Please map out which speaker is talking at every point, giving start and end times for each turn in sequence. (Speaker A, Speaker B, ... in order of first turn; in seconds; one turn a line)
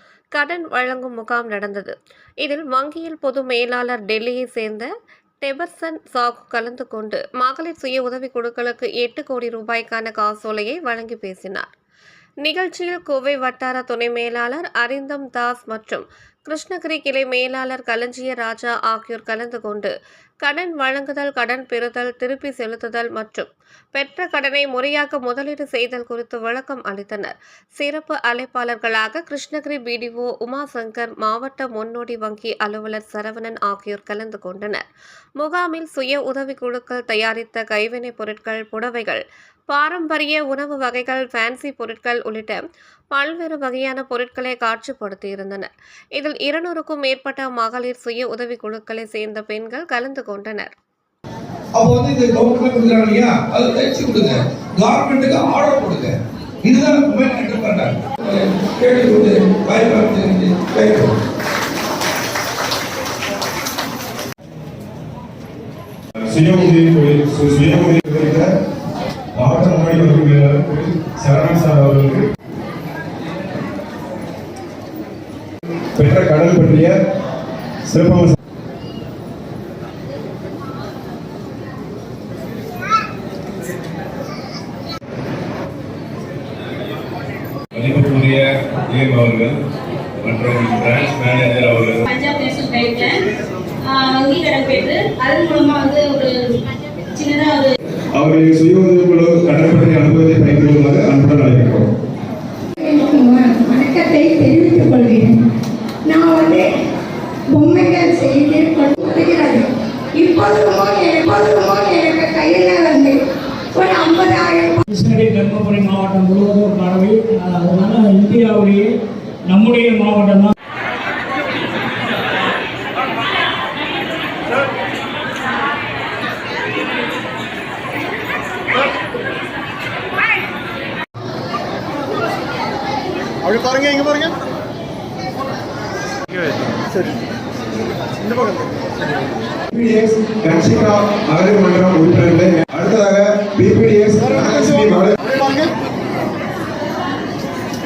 Speaker A: 0.3-4.9
Speaker A: 5.4-11.7
Speaker A: 12.4-34.8
Speaker A: 35.4-50.7
Speaker B: 51.8-61.1
Speaker C: 66.3-68.5
Speaker C: 69.4-72.2
Speaker C: 76.0-76.9
Speaker C: 77.9-78.3
Speaker D: 87.7-89.5
Speaker D: 90.2-92.0
Speaker E: 92.1-93.3
Speaker E: 93.8-96.5
Speaker E: 97.1-97.7
Speaker C: 98.2-101.9
Speaker F: 102.8-105.4
Speaker F: 106.1-106.7
Speaker F: 107.5-113.2
Speaker F: 113.7-114.8
Speaker G: 114.9-118.9
Speaker G: 119.5-120.5
Speaker C: 139.7-145.2